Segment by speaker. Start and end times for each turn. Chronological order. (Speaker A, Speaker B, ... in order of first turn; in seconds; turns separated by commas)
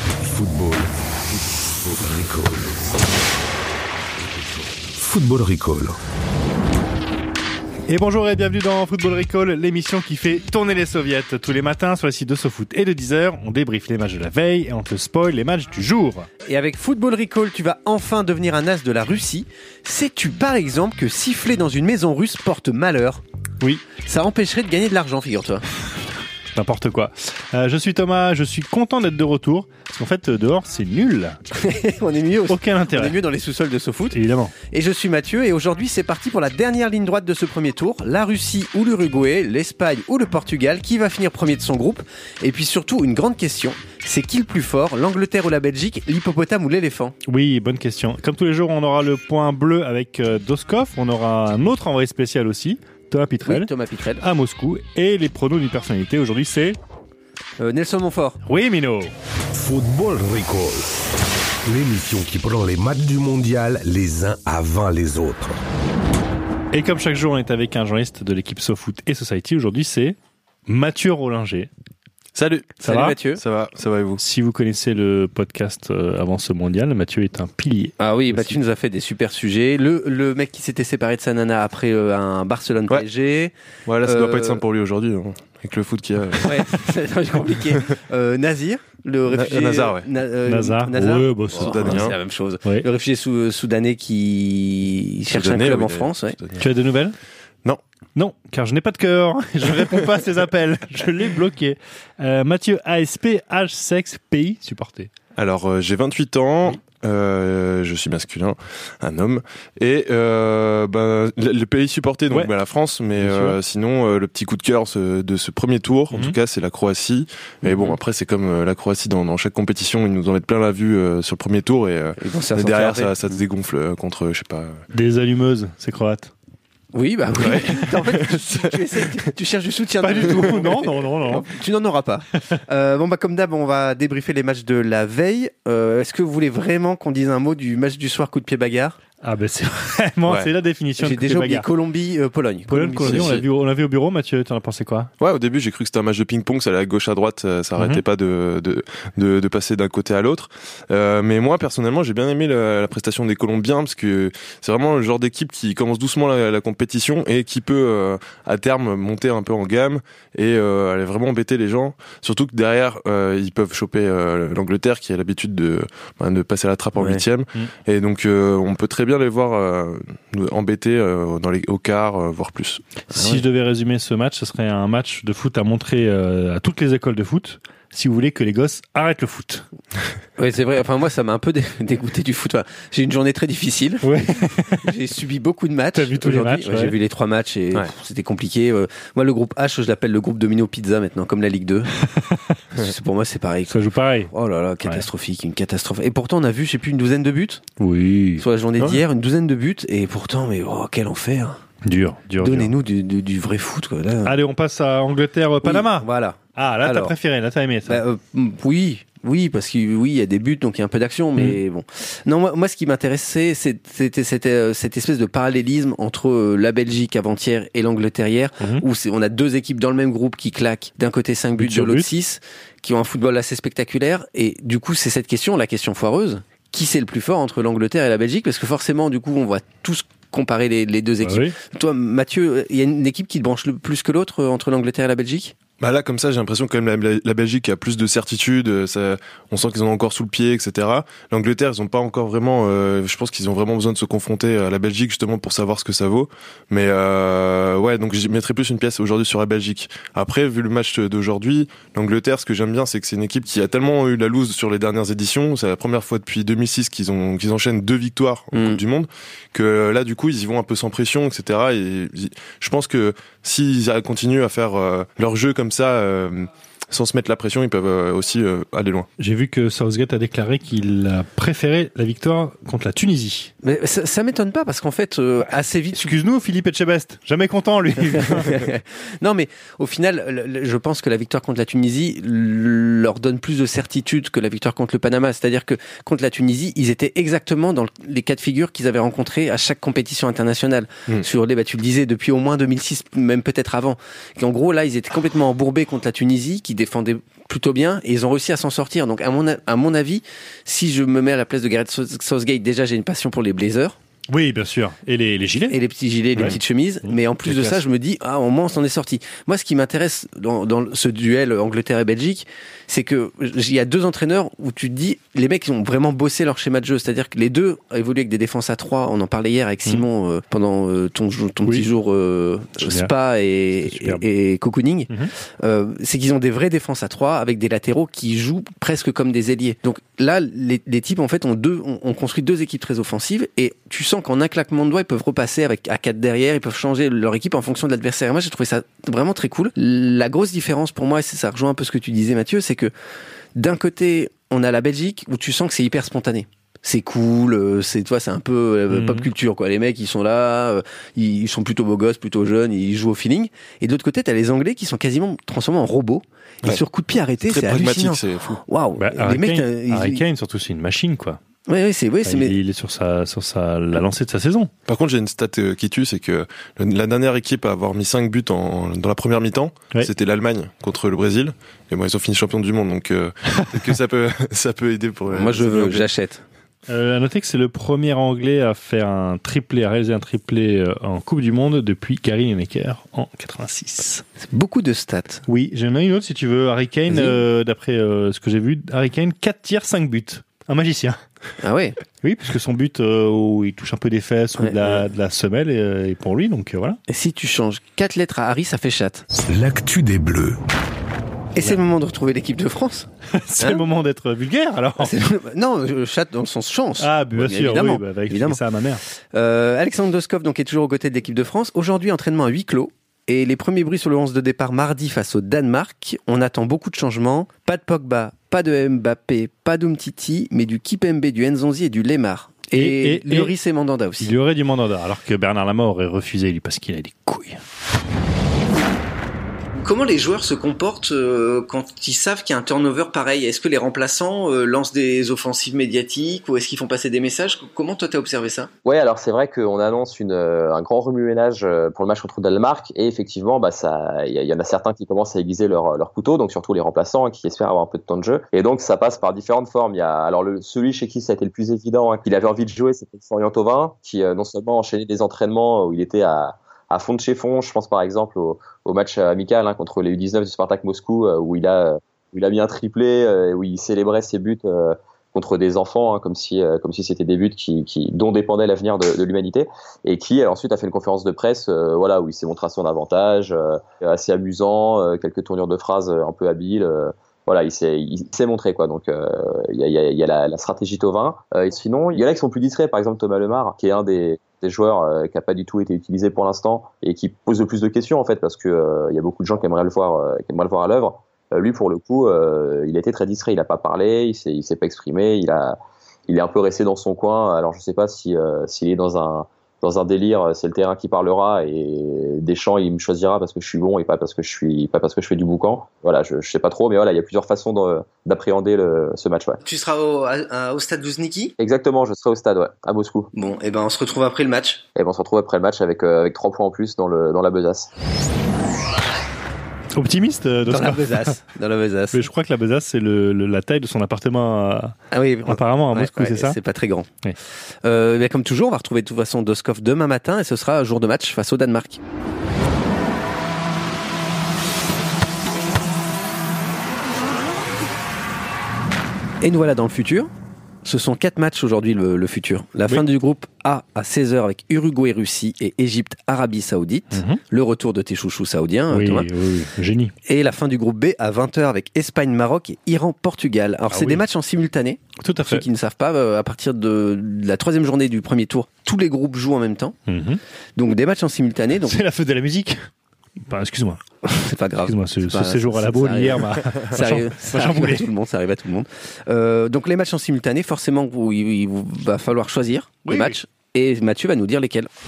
Speaker A: 0.2-2.9, Speaker A: 4.2-6.0, Speaker B: 7.9-16.3, Speaker C: 16.4-23.2, Speaker B: 23.6-23.9, Speaker C: 24.0-25.6, Speaker B: 26.5-31.4, Speaker C: 31.5-47.1, Speaker B: 32.5-33.2, Speaker B: 34.1-34.5, Speaker B: 47.3-56.8, Speaker C: 53.4-54.2, Speaker C: 57.6-58.4, Speaker B: 58.5-59.1, Speaker A: 59.5-60.9, Speaker A: 61.6-65.6, Speaker B: 66.7-70.2, Speaker B: 70.7-71.7, Speaker D: 72.3-72.8, Speaker C: 72.8-73.4, Speaker B: 72.8-73.2, Speaker D: 73.4-74.2, Speaker B: 74.2-78.6, Speaker C: 78.0-83.5, Speaker D: 83.9-86.7, Speaker C: 84.0-84.6, Speaker C: 86.4-96.4, Speaker D: 89.3-90.1, Speaker B: 90.5-92.1, Speaker D: 91.6-92.2, Speaker D: 95.3-96.7, Speaker B: 96.6-97.2, Speaker B: 98.2-105.1, Speaker D: 105.4-124.8, Speaker B: 113.2-113.6, Speaker B: 116.1-116.4, Speaker C: 117.6-118.0, Speaker C: 122.2-123.1, Speaker B: 124.9-126.3, Speaker C: 126.9-139.0, Speaker D: 127.4-128.2, Speaker B: 130.0-131.5, Speaker B: 139.2-141.7, Speaker D: 140.3-140.5, Speaker C: 141.0-143.4, Speaker B: 142.7-145.1, Speaker D: 143.0-143.4, Speaker D: 145.2-172.8, Speaker B: 147.8-148.0, Speaker C: 167.0-167.2, Speaker B: 173.1-179.7, Speaker C: 173.1-173.4, Speaker C: 180.4-191.9, Speaker B: 184.0-184.9, Speaker B: 185.9-187.0, Speaker B: 192.1-192.4, Speaker C: 192.7-193.8, Speaker B: 193.7-194.3, Speaker C: 194.3-197.7, Speaker B: 197.8-198.4, Speaker C: 198.4-201.6, Speaker B: 201.8-202.7, Speaker C: 202.4-204.3, Speaker B: 204.2-208.0, Speaker C: 205.6-207.1, Speaker C: 207.9-235.5, Speaker B: 221.6-222.1, Speaker B: 231.2-231.6, Speaker D: 235.8-269.1, Speaker C: 258.5-258.8, Speaker B: 269.2-273.5, Speaker C: 273.6-276.1, Speaker B: 275.9-278.7, Speaker C: 278.2-304.0, Speaker B: 304.3-305.8, Speaker C: 305.7-342.9, Speaker B: 306.4-307.8, Speaker B: 321.6-321.9, Speaker B: 322.8-323.1, Speaker B: 323.8-324.2, Speaker C: 343.6-360.2, Speaker B: 348.9-349.3, Speaker D: 357.4-358.6, Speaker B: 359.0-361.4, Speaker C: 361.7-362.6, Speaker B: 362.2-364.7, Speaker D: 364.9-376.1, Speaker C: 375.3-376.4, Speaker B: 376.9-384.2, Speaker C: 384.4-385.4, Speaker B: 385.5-391.2, Speaker C: 387.1-387.4, Speaker C: 391.6-392.0, Speaker B: 392.2-397.0, Speaker C: 394.6-395.0, Speaker C: 397.1-399.2, Speaker A: 399.5-400.6, Speaker C: 401.6-403.8, Speaker B: 403.3-405.1, Speaker C: 405.0-408.6, Speaker B: 407.0-409.0, Speaker C: 409.3-424.3, Speaker B: 422.7-423.5, Speaker B: 424.2-427.6, Speaker C: 429.8-438.7, Speaker E: 438.9-495.8, Speaker E: 496.3-509.6, Speaker C: 509.6-511.5, Speaker E: 511.6-513.3, Speaker C: 513.3-514.8, Speaker E: 515.0-517.9, Speaker B: 520.0-521.4, Speaker C: 520.7-522.2, Speaker B: 522.1-526.6, Speaker C: 525.1-527.1, Speaker C: 527.8-532.0, Speaker C: 539.4-540.3, Speaker C: 540.9-549.3, Speaker B: 547.1-547.4, Speaker B: 548.9-550.1, Speaker C: 550.2-560.0, Speaker B: 553.9-554.2, Speaker B: 555.2-555.6, Speaker B: 560.1-560.4, Speaker C: 560.8-562.0, Speaker B: 561.8-562.9, Speaker B: 563.5-564.0, Speaker C: 564.2-574.9, Speaker B: 564.8-568.1, Speaker B: 573.0-573.4